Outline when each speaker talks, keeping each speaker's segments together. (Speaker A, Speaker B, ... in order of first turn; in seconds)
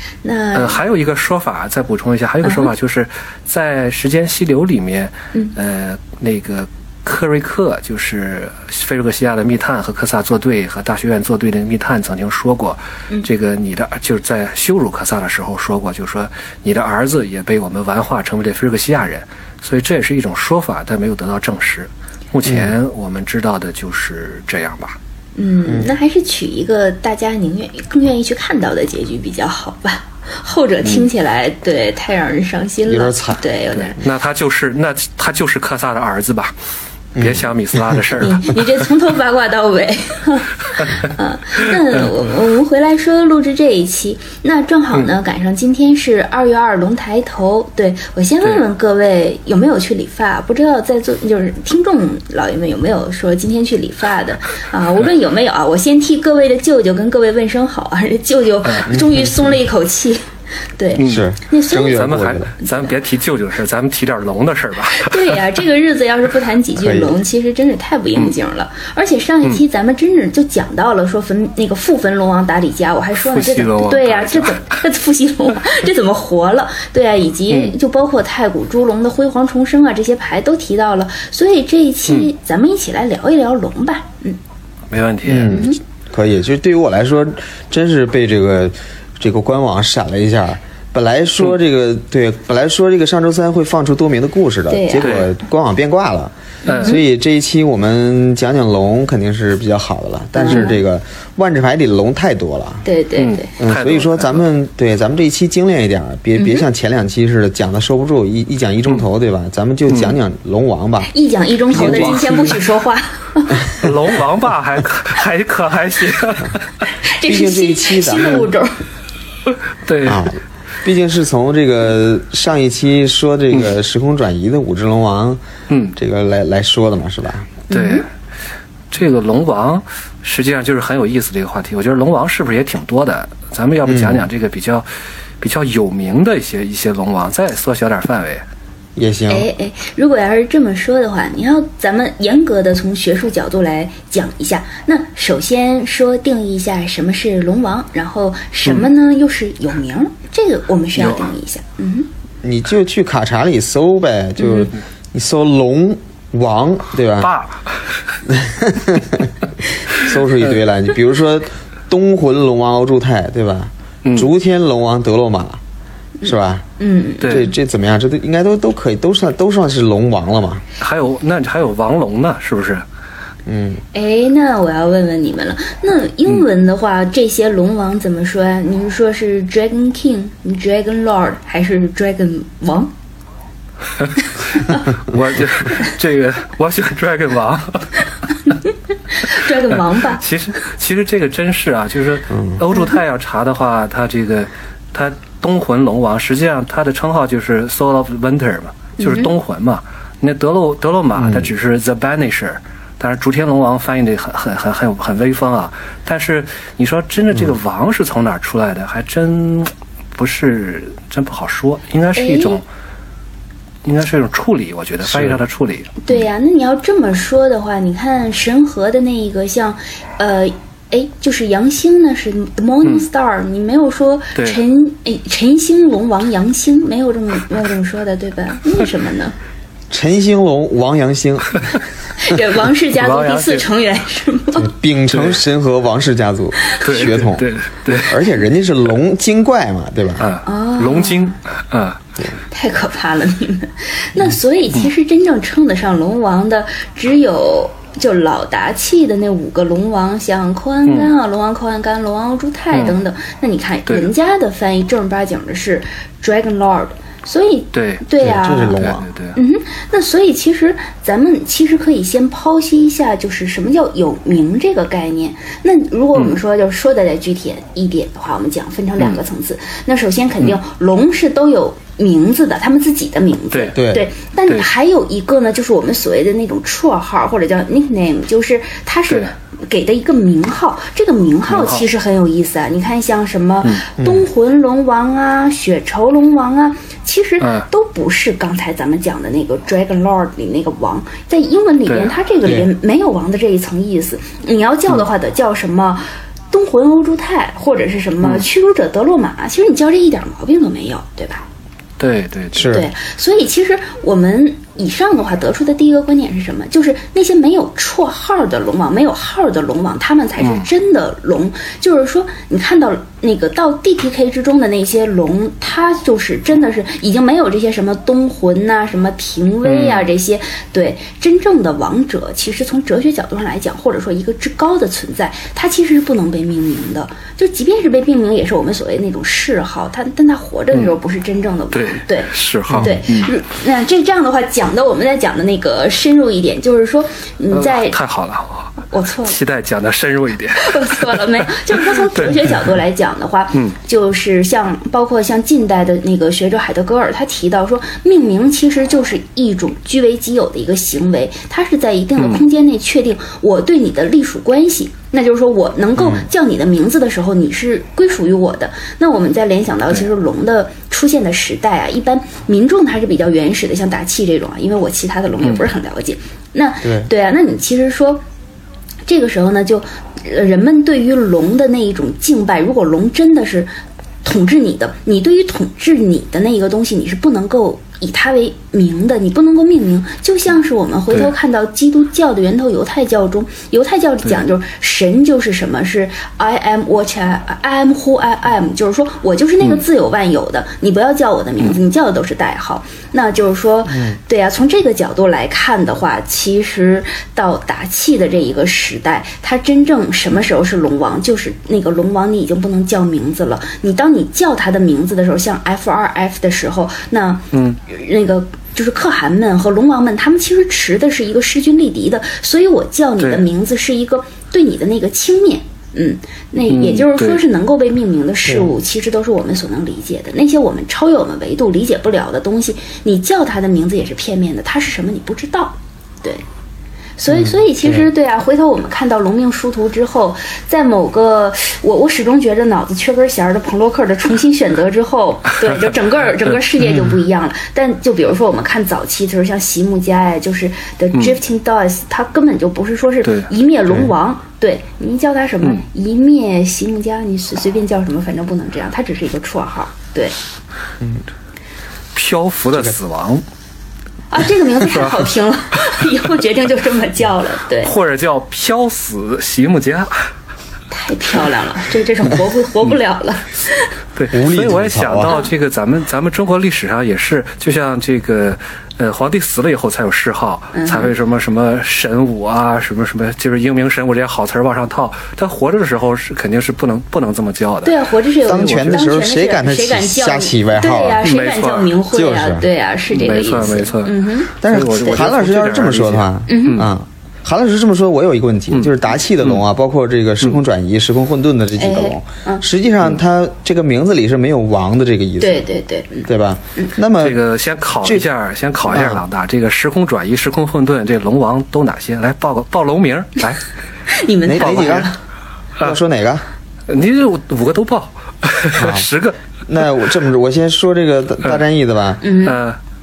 Speaker A: 0.2-0.8, 2.4-2.7, 25.4-34.0, 38.2-60.2, 60.8-62.9, 64.9-84.4, 85.5-85.8, 94.7-95.2, 96.7-97.0, 100.4-100.8, 102.8-103.5, 106.4-106.6, 111.1-113.8, 116.9-118.8, 127.7-128.0, 139.3-152.1, 154.4-154.7, 166.8-167.5, 173.9-182.9, 184.6-184.9, 188.5-190.2, 199.0-199.3, 212.2-212.6, 216.0-229.3, 232.2-234.7, 240.4-241.3, 242.5-301.5, 302.7-338.0, 338.9-339.4, 340.6-368.2, 369.1-373.7, 374.2-426.4, 427.2-450.3, 454.3-457.9, 460.9-463.9, 470.7-471.1, 477.8-484.5, 486.5-486.9, 491.8-492.6, 495.4-496.9, 504.1-505.2, 512.2-512.6
Speaker B: 0.5-25.0, 33.8-36.5, 37.2-38.8, 61.0-61.3, 61.8-65.4, 73.2-74.7, 77.5-77.8, 84.9-85.7, 95.0-95.3, 96.7-97.0, 103.2-104.5, 109.9-110.2, 111.8-112.6, 113.8-116.7, 119.8-120.3, 125.7-125.9, 127.7-128.1, 128.9-134.9, 135.4-138.4, 151.0-151.3, 157.2-158.0, 164.0-164.3, 167.2-167.5, 170.8-172.8, 184.8-188.1, 189.7-212.6, 213.8-216.2, 232.9-233.7, 235.1-235.4, 236.8-238.2, 240.2-242.0, 250.8-251.1, 252.7-253.0, 257.7-258.1, 258.7-259.4, 281.5-281.9, 287.4-287.6, 291.9-292.1, 302.0-302.7, 310.4-310.7, 319.6-320.1, 331.7-333.3, 337.5-342.7, 352.2-352.4, 407.5-407.8, 413.2-413.5, 416.7-417.4, 443.2-443.5, 452.1-453.4, 454.9-455.3, 457.8-460.2, 464.1-479.0, 481.2-482.0, 483.1-486.9, 497.2-503.6, 506.9-509.4, 512.4-512.8
Speaker C: 22.4-22.7, 32.9-33.4, 37.1-38.0, 58.9-59.3, 61.0-62.5, 66.8-67.2, 85.2-102.8, 103.6-111.1, 111.7-112.4, 117.2-118.5, 120.0-125.4, 125.9-127.5, 133.8-134.2, 138.9-139.5, 152.4-157.3, 158.2-159.3, 159.9-165.6, 166.2-166.7, 167.3-170.6, 173.4-173.8, 192.3-192.6, 201.2-201.5, 229.9-231.6, 234.6-240.3, 258.2-259.0, 273.8-274.1, 284.0-284.2, 302.5-302.9, 332.7-332.9, 366.8-367.1, 393.9-394.2, 464.3-465.4, 478.5-481.2, 482.1-482.6, 484.6-495.7, 496.2-497.4, 498.9-499.2, 504.5-505.1, 505.8-506.4, 508.8-509.1, 509.7-512.2